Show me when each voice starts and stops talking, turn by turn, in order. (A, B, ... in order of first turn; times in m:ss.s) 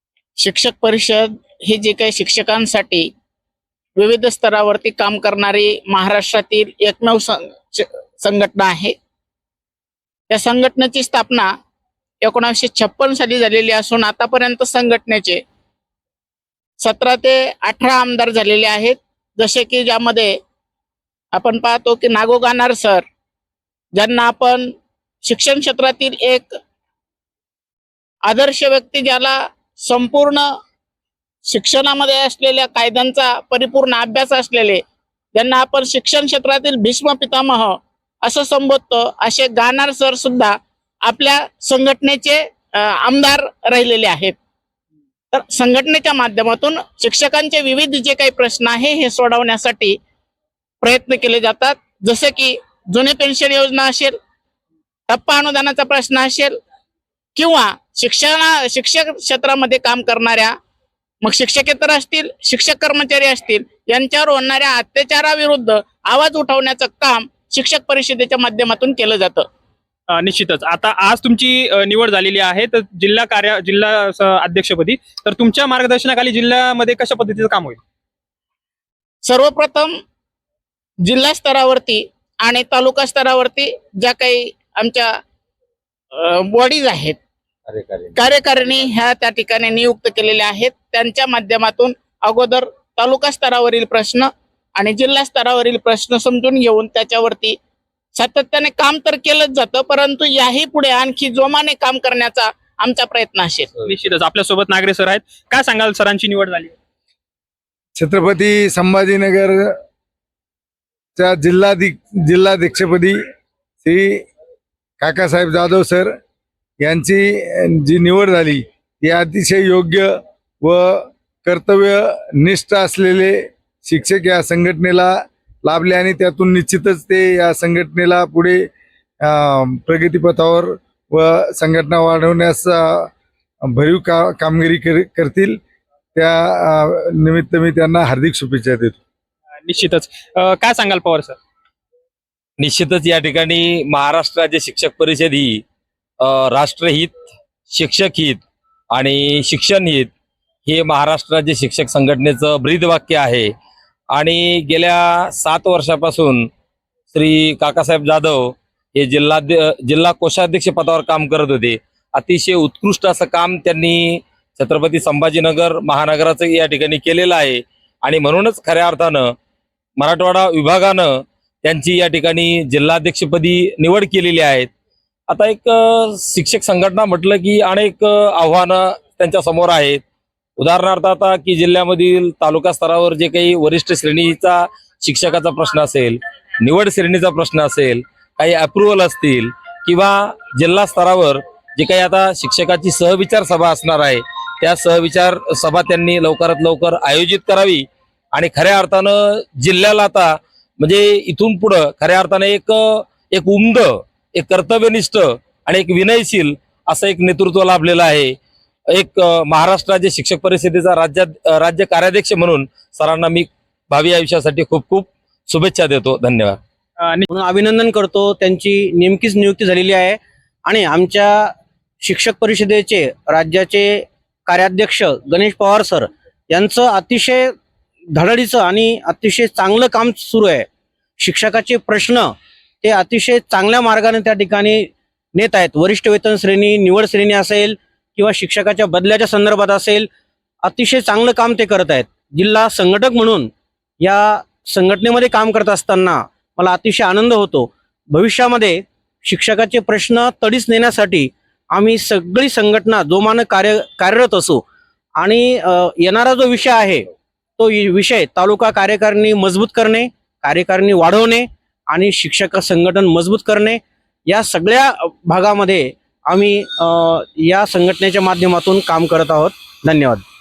0:00.4-0:03.1 A
0:04.0-0:08.9 A
0:10.3-0:11.5 A
0:12.2-0:15.4 A
0:16.8-0:20.4 A
0:21.3-0:23.0 A
0:24.0-0:24.7 A
0:25.2-0:26.5 A
0:28.2-0:30.5 A
0:31.5-0:34.8 A
0:35.3-0:44.3 A
0:45.3-0:50.0 A
0:50.8-0:54.1 A
0:55.1-0:56.6 A
0:57.4-1:00.5 A
1:01.2-1:09.5 A
1:10.1-1:17.8 B
1:19.2-1:19.9 A
1:21.0-1:25.2 A
1:26.1-1:27.2 A
1:27.7-1:28.1 C
1:28.1-1:37.6 A
1:38.2-1:43.7 A
1:43.8-1:46.7 B
1:48.0-1:49.7 D
1:51.2-1:53.2 D
1:53.8-1:54.3 D
1:55.0-1:56.1 D
1:56.8-2:05.1 D
2:05.6-2:08.7 D
2:09.2-2:13.1 D
2:13.7-2:15.6 D
2:16.2-2:19.0 D
2:19.6-2:21.4 B
2:22.6-2:25.6 C
2:26.2-2:27.1 C
2:27.7-2:30.1 C
2:30.6-2:33.5 C
2:34.1-2:36.5 C
2:37.1-2:49.3 C
2:50.0-2:54.7 C
2:55.3-3:00.0 C
3:00.6-3:28.4 C
3:28.9-3:36.6 C
3:37.0-3:37.3 B
3:37.3-3:47.5 E
3:48.1-3:50.7 E
3:51.2-3:52.3 E
3:52.8-4:00.1 E
4:00.6-4:03.5 E
4:04.0-4:14.6 E
4:15.2-4:17.1 E
4:17.6-4:30.2 E